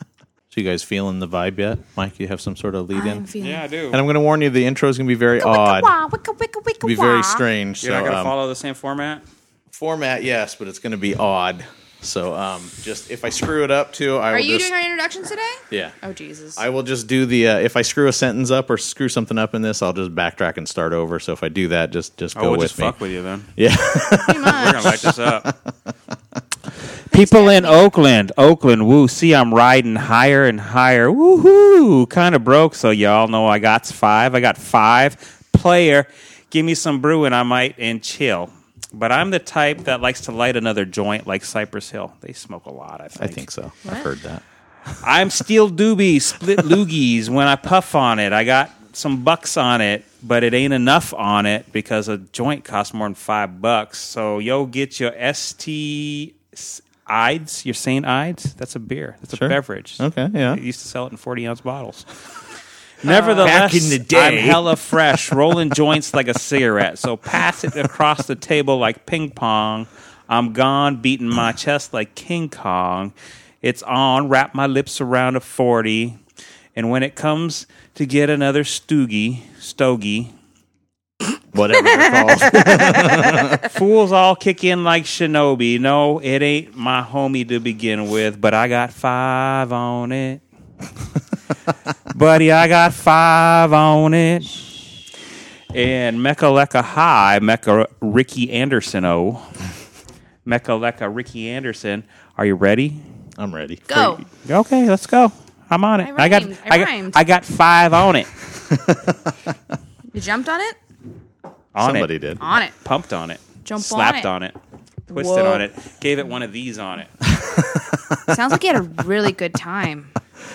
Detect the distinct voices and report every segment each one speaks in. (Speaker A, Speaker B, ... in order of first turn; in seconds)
Speaker A: 0.5-3.2, 3.9-5.9, 6.8-8.3, 9.7-14.7, 16.6-22.9, 23.6-25.5, 43.1-44.4, 59.3-60.6, 63.4-64.6, 81.5-83.7, 103.4-104.2, 108.7-109.1, 111.8-112.4, 117.3-118.3
Speaker B: 2.9-3.6, 5.4-7.4, 14.3-16.6, 24.2-24.9, 27.1-27.9, 63.0-63.6, 82.0-83.5, 103.9-104.2, 106.0-107.2, 110.1-110.8, 112.4-112.7, 113.6-114.3, 115.1-115.6, 118.3-120.1
Speaker C: 3.4-4.0, 7.8-9.2, 22.4-23.5, 24.4-25.5, 27.1-43.4, 45.0-62.0, 63.0-76.2, 76.8-80.3, 83.6-90.4, 92.1-94.6, 95.7-99.5, 100.5-103.0, 104.4-108.3, 111.7-112.1, 112.8-114.5, 115.1-117.1